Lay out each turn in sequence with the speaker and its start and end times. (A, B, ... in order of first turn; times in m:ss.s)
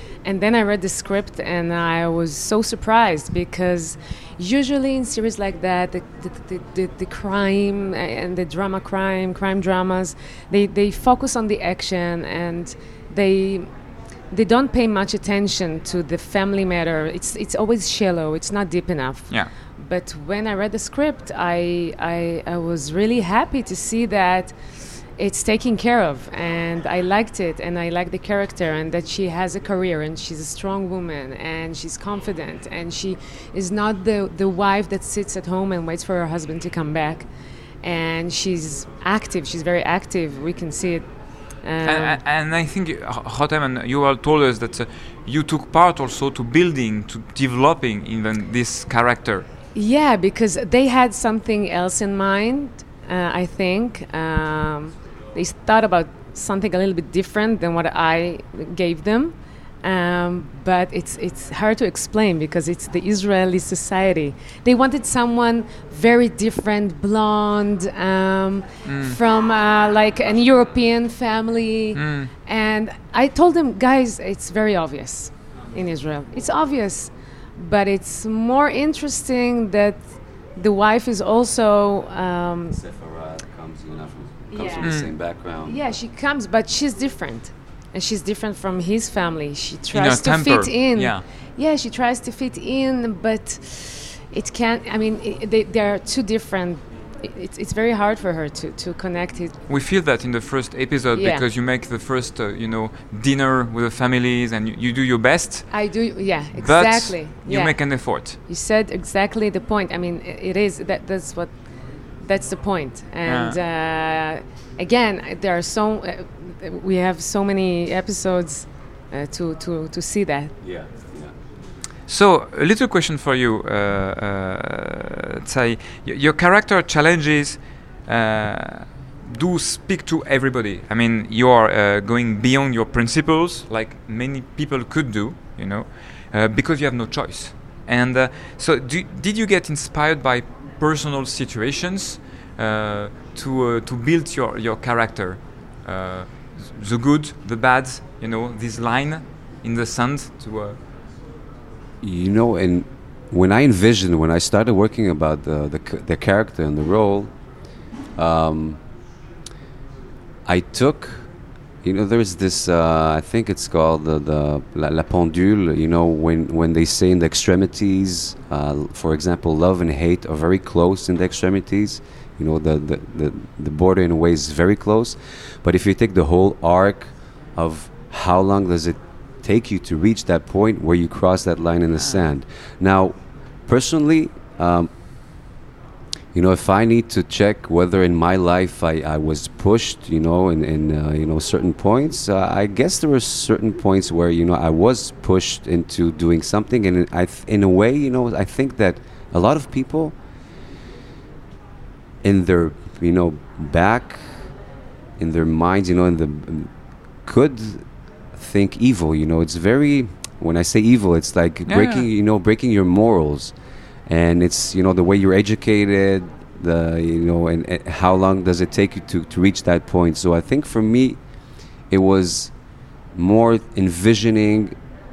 0:00.2-0:13.7 A
0:14.3-0:37.3 A
0:37.8-0:42.2 A
0:41.8-0:49.5 B
0:49.7-1:22.8 A
1:08.8-1:09.2 B
1:12.0-1:12.3 B
1:22.7-1:25.8 C
1:24.5-1:25.1 A
1:24.8-1:25.1 B
1:25.6-1:39.6 A
1:29.9-1:31.2 B
1:39.7-1:45.9 B
1:41.1-1:41.4 A
1:45.7-2:00.6 A
1:46.6-1:48.4 B
1:53.3-1:53.6 B
2:00.6-2:01.3 C
2:02.1-2:30.8 B
2:32.0-2:37.4 C
2:38.2-2:38.8 C
2:40.4-2:41.3 C
2:41.8-3:05.0 C
3:02.0-3:02.2 B
3:06.3-3:20.2 C
3:22.2-3:24.5 C
3:25.2-3:26.7 C
3:27.2-3:33.5 C
3:31.7-3:32.1 B
3:34.1-3:41.2 C
3:41.9-3:44.8 C